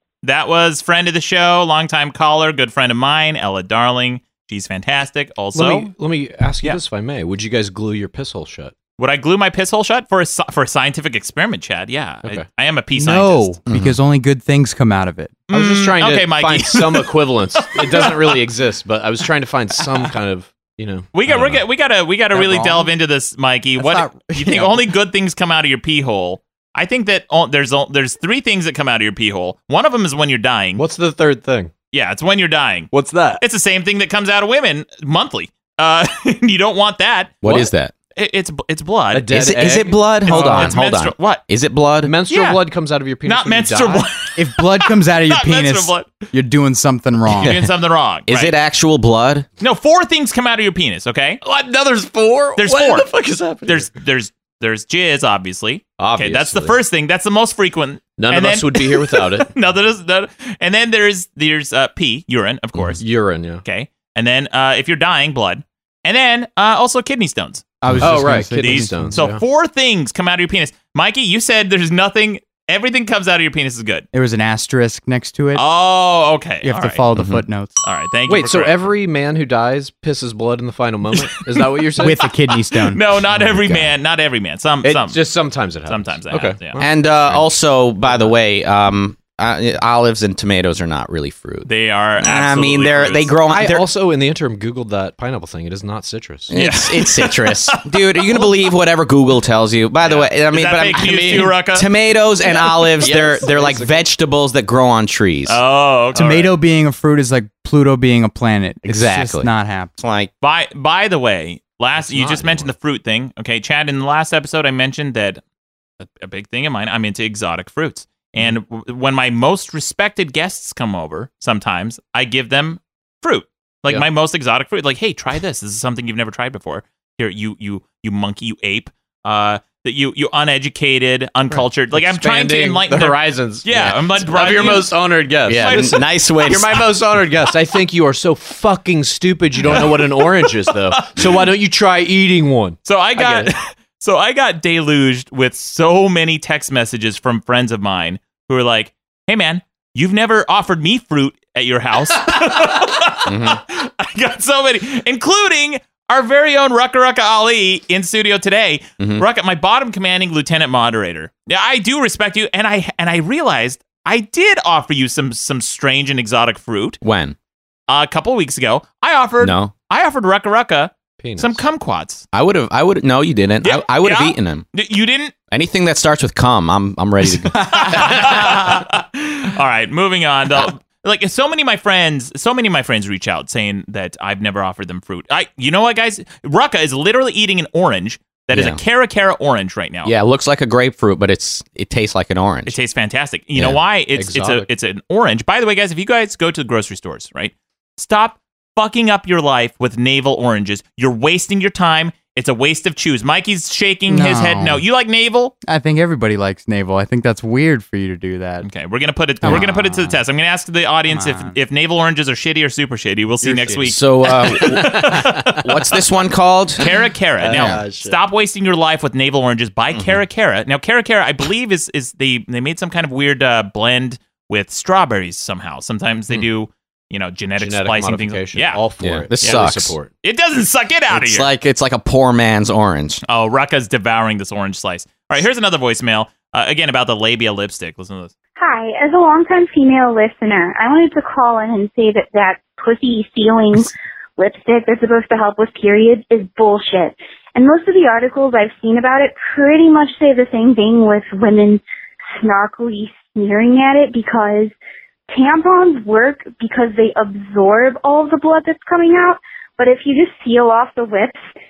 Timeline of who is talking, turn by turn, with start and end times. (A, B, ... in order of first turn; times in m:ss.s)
0:00.2-0:05.9 A
0:05.5-0:08.7 B
0:09.0-0:13.6 A
0:13.0-0:15.5 C
0:13.7-0:14.0 D
0:15.5-0:18.4 A
0:15.5-0:21.6 B
0:21.1-0:30.8 A
0:22.3-0:22.9 C
0:23.8-0:24.9 C
0:30.8-0:31.7 B
0:31.9-0:37.4 A
0:32.9-0:33.4 B
0:37.4-0:37.9 D
0:37.4-0:37.7 B
0:38.2-0:39.3 A
0:39.1-0:40.8 B
0:39.3-0:42.2 D
0:40.3-0:41.4 A
0:42.0-0:44.1 B
0:42.3-0:42.6 A
0:43.2-0:46.1 A
0:44.4-0:47.6 C
0:47.4-0:48.5 A
0:48.3-0:49.5 D
0:49.6-0:51.4 A
0:51.4-0:53.9 B
0:52.6-0:53.1 A
0:53.6-1:03.0 A
0:56.0-0:56.8 B
0:58.2-0:59.5 B
1:02.8-1:03.6 B
1:03.6-1:07.7 A
1:07.8-1:09.2 C
1:08.0-1:09.4 B
1:08.6-1:14.1 A
1:14.1-1:15.6 C
1:15.6-1:17.0 A
1:16.6-1:17.8 C
1:17.2-1:17.4 D
1:17.8-1:18.8 A
1:18.3-1:22.2 B
1:21.2-1:25.2 A
1:22.0-1:23.9 C
1:24.8-1:27.5 B
1:25.8-1:26.8 A
1:26.8-1:31.7 D
1:28.0-1:28.4 B
1:31.6-1:33.3 A
1:32.2-1:33.8 D
1:33.5-1:36.5 B
1:36.5-1:45.6 D
1:36.5-1:38.5 A
1:40.0-1:41.9 A
1:43.0-1:44.0 B
1:45.5-1:46.5 A
1:46.1-1:50.0 C
1:48.8-1:50.3 D
1:50.4-1:55.4 A
1:52.0-1:52.7 B
1:56.0-2:15.0 A
2:11.5-2:23.5 B
2:15.5-2:16.8 D
2:15.5-2:16.0 A
2:19.7-2:20.5 A
2:21.0-2:21.3 A
2:22.8-2:47.0 A
2:33.3-2:33.6 D
2:39.0-2:39.2 D
2:47.0-2:47.4 D
2:47.9-2:52.3 A
2:49.4-2:49.7 D
2:51.2-2:51.6 B
2:52.3-2:54.7 D
2:53.6-2:55.3 A
2:55.5-2:58.8 D
2:57.5-3:10.1 A
3:08.5-3:08.8 D
3:10.0-3:12.8 D
3:12.7-3:25.6 A
3:14.2-3:14.7 B
3:24.1-3:24.8 C
3:25.7-3:28.7 C
3:28.6-3:35.5 A
3:29.4-3:30.2 C
3:31.1-3:31.6 C
3:33.4-3:35.7 B
3:33.9-3:36.8 D
3:36.8-3:48.9 A
3:37.4-3:38.2 B
3:37.5-3:37.8 D
3:39.9-3:40.2 D
3:47.6-3:50.1 B
3:49.0-3:50.0 D
3:50.2-3:51.5 A
3:51.1-3:53.2 D
3:53.3-3:58.3 A
3:58.6-4:11.8 E
4:12.4-4:14.7 E
4:15.3-4:21.4 E